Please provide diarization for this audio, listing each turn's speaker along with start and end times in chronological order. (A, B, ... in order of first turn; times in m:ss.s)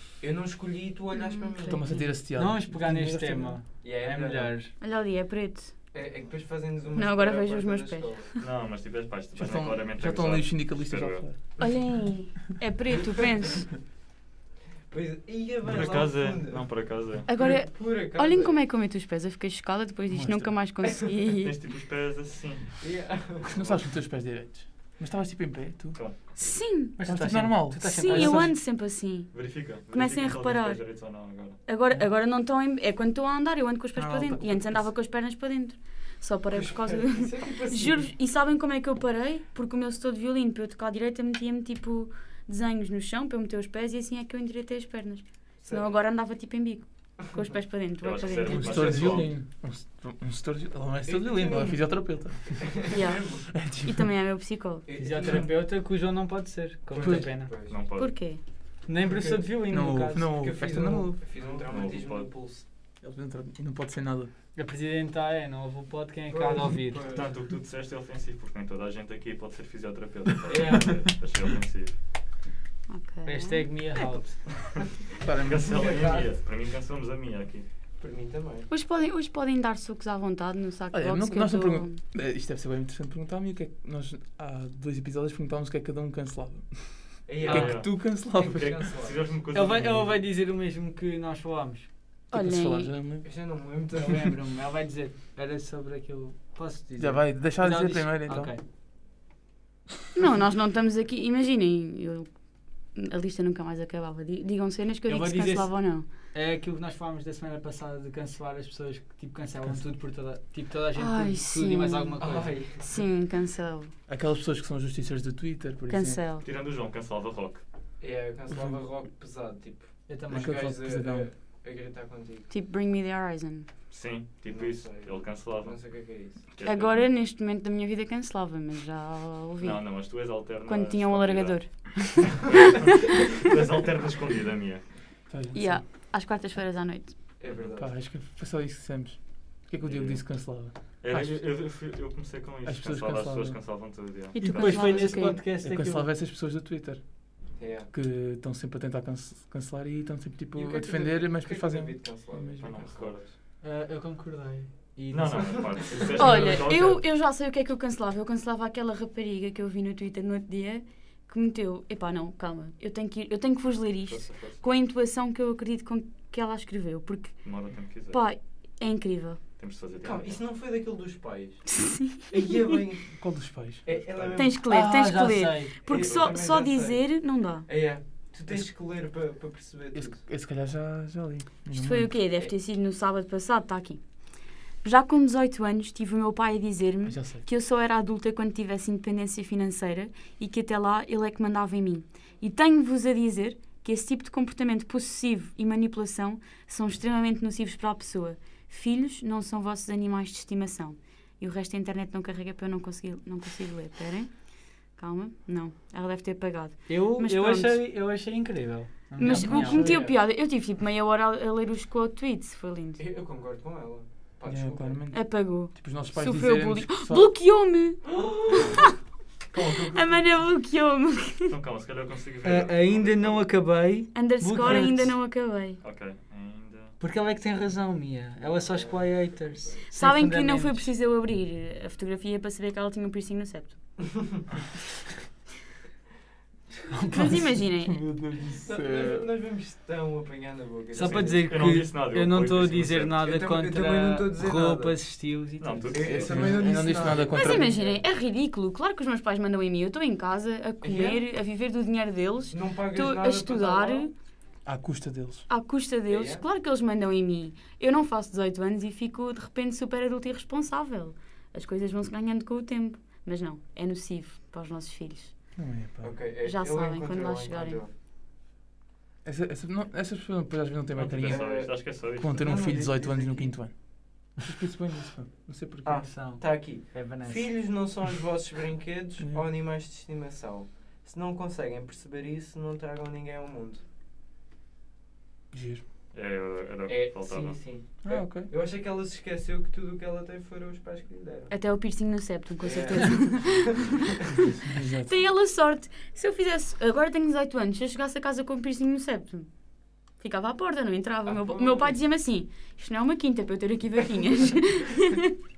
0:00.2-0:02.1 A
0:01.1-0:02.0 B
0:01.7-0:03.6 C
0:02.3-0:04.7 D
0:03.8-0:04.6 A
0:04.8-0:05.7 B
0:05.9-0:08.3 A
0:07.0-0:08.4 B
0:08.4-0:11.2 E
0:09.4-0:11.4 C
0:11.6-0:13.7 B
0:14.9-0:16.7 A
0:15.6-0:17.3 E
0:17.3-0:21.5 B
0:17.4-0:18.6 A
0:20.1-0:20.6 C
0:21.4-0:22.8 E
0:22.8-0:23.6 A
0:23.4-0:26.0 C
0:23.5-0:23.8 E
0:25.9-0:26.4 E
0:26.4-0:27.0 B
0:27.0-0:28.6 D
0:27.0-0:28.2 C
0:27.8-0:31.1 B
0:28.2-0:28.6 E
0:29.3-0:31.6 E
0:31.6-0:49.1 B
0:34.0-0:35.0 C
0:36.5-0:38.1 A
0:45.6-0:45.9 A
0:48.0-0:49.3 E
0:48.5-0:53.0 C
0:51.0-0:52.0 A
0:52.8-0:53.4 A
0:52.9-0:54.9 B
0:53.5-0:54.1 C
0:54.9-0:55.8 A
0:54.9-0:57.5 D
0:56.9-0:57.3 C
0:56.9-0:57.8 A
0:57.6-0:58.2 E
0:58.0-0:58.4 B
0:58.9-1:00.4 D
0:59.0-0:59.5 A
0:59.7-1:01.2 C
1:00.3-1:02.6 A
1:01.4-1:02.3 E
1:03.0-1:04.3 C
1:04.6-1:07.0 D
1:06.3-1:07.4 A
1:07.0-1:12.0 E
1:10.5-1:11.1 A
1:12.9-1:14.2 B
1:13.2-1:14.4 D
1:15.2-1:16.0 C
1:15.3-1:17.7 E
1:15.7-1:16.3 A
1:18.0-1:18.7 A
1:18.7-1:22.0 B
1:20.9-1:28.9 C
1:27.3-1:29.4 A
1:27.4-1:30.2 E
1:29.4-1:31.9 D
1:32.3-1:33.3 C
1:32.3-1:32.9 B
1:33.2-1:34.4 A
1:33.9-1:38.6 D
1:37.0-1:38.5 C
1:40.2-1:42.3 B
1:42.9-1:46.1 B
1:45.1-1:52.6 D
1:51.0-1:53.9 B
1:52.2-1:52.9 A
1:54.1-1:56.2 C
1:55.9-1:56.4 B
1:56.4-1:57.6 E
1:58.0-2:02.5 A
1:58.5-1:58.8 C
2:00.1-2:00.6 D
2:00.3-2:01.3 C
2:02.5-2:03.7 B
2:03.9-2:07.1 E
2:04.4-2:06.4 A
2:06.6-2:09.9 B
2:09.6-2:14.9 E
2:10.6-2:12.5 B
2:15.3-2:15.8 C
2:15.5-2:17.2 B
2:17.4-2:17.9 A
2:17.5-2:17.7 E
2:17.8-2:21.4 C
2:19.8-2:20.3 E
2:21.0-2:25.3 E
2:22.6-2:23.6 C
2:24.3-2:25.4 B
2:24.4-2:26.1 D
2:25.6-2:32.9 C
2:27.6-2:27.9 A
2:30.5-2:33.4 A
2:32.6-2:33.2 E
2:33.6-2:35.9 D
2:35.1-2:37.0 E
2:36.2-2:49.4 B
2:44.1-2:44.6 E
2:47.4-2:48.2 E
2:49.6-2:50.4 E
2:50.0-2:53.1 A
2:51.8-2:52.2 B
2:53.1-2:53.8 C
2:53.8-2:54.6 A
2:53.9-2:54.5 E
2:54.4-2:57.7 B
2:54.6-2:55.8 D
2:55.8-2:57.0 A
2:55.9-2:56.4 E
2:57.7-3:00.2 A
3:00.0-3:02.1 C
3:01.7-3:04.0 B
3:04.8-3:24.3 B
3:07.0-3:07.4 C
3:25.0-3:27.8 B
3:26.9-3:30.0 D
3:29.2-3:33.0 B
3:29.5-3:30.2 A
3:33.0-3:35.0 A
3:34.5-3:37.3 C
3:35.1-3:38.9 B
3:38.1-3:38.8 A
3:39.6-3:39.9 E
3:39.6-3:41.5 B
3:39.7-3:40.1 A
3:41.4-3:43.5 E
3:42.4-3:45.2 D
3:44.1-3:45.8 B
3:44.6-3:44.9 E
3:45.8-3:47.0 E
3:47.0-3:50.9 D
3:48.4-3:49.9 A
3:49.9-3:53.8 B
3:56.9-3:57.5 D
3:57.1-3:58.0 B
3:57.6-3:59.3 C
3:58.6-4:01.7 A
4:00.9-4:06.6 D
4:01.0-4:03.2 E
4:03.2-4:05.0 A
4:05.6-4:06.6 E
4:05.9-4:08.0 A
4:06.1-4:07.8 C
4:07.3-4:14.1 B
4:10.8-4:11.2 A
4:12.5-4:14.1 A
4:14.6-4:15.5 C
4:15.5-4:25.4 B
4:16.1-4:16.4 A
4:25.6-4:26.2 C
4:26.0-4:27.9 A
4:26.4-4:27.8 B
4:29.2-4:33.7 C
4:30.9-4:32.5 E
4:31.3-4:33.6 A
4:34.4-4:36.1 C
4:35.8-4:43.8 A
4:36.0-4:37.6 D
4:39.2-4:39.5 C
4:45.5-4:45.8 C
4:46.1-4:47.6 E
4:46.9-4:51.5 A
4:48.0-4:48.5 C
4:51.5-4:54.2 B
4:52.6-4:53.9 A
4:54.5-4:55.1 C
4:55.0-4:59.5 B
5:00.2-5:05.3 B
5:01.2-5:02.0 A